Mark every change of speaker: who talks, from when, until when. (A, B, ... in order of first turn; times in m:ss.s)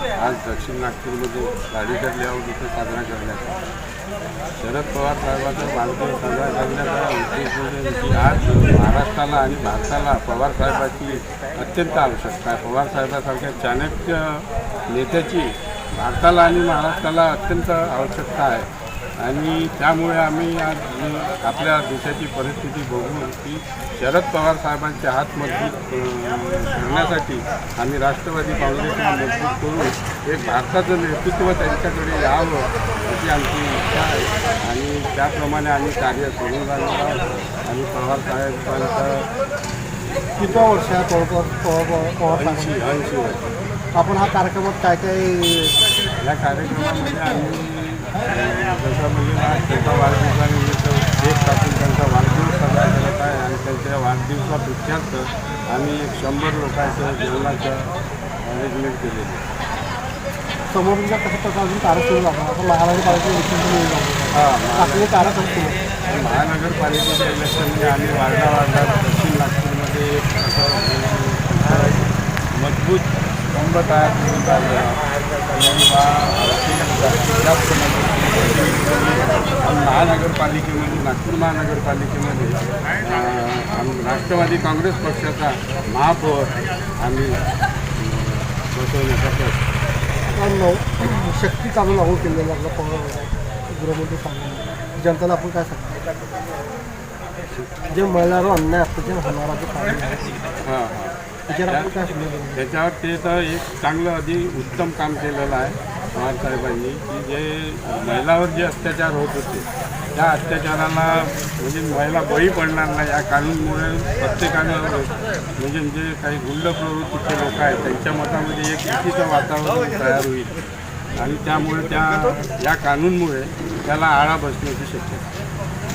0:00.2-0:03.6 A
0:04.6-0:39.3 A
0:40.4-0:42.8 B
0:42.4-0:43.6 A
0:44.0-0:45.8 B
0:46.2-0:59.4 A
1:00.7-1:05.8 B
1:04.3-1:05.1 A
1:06.1-1:12.0 A
1:12.5-1:27.4 A
1:28.0-1:29.7 A
1:30.3-1:36.0 B
1:37.9-1:40.4 B
1:40.6-1:41.2 A
1:41.5-1:42.6 B
1:42.6-2:00.6 A
2:01.2-2:05.3 A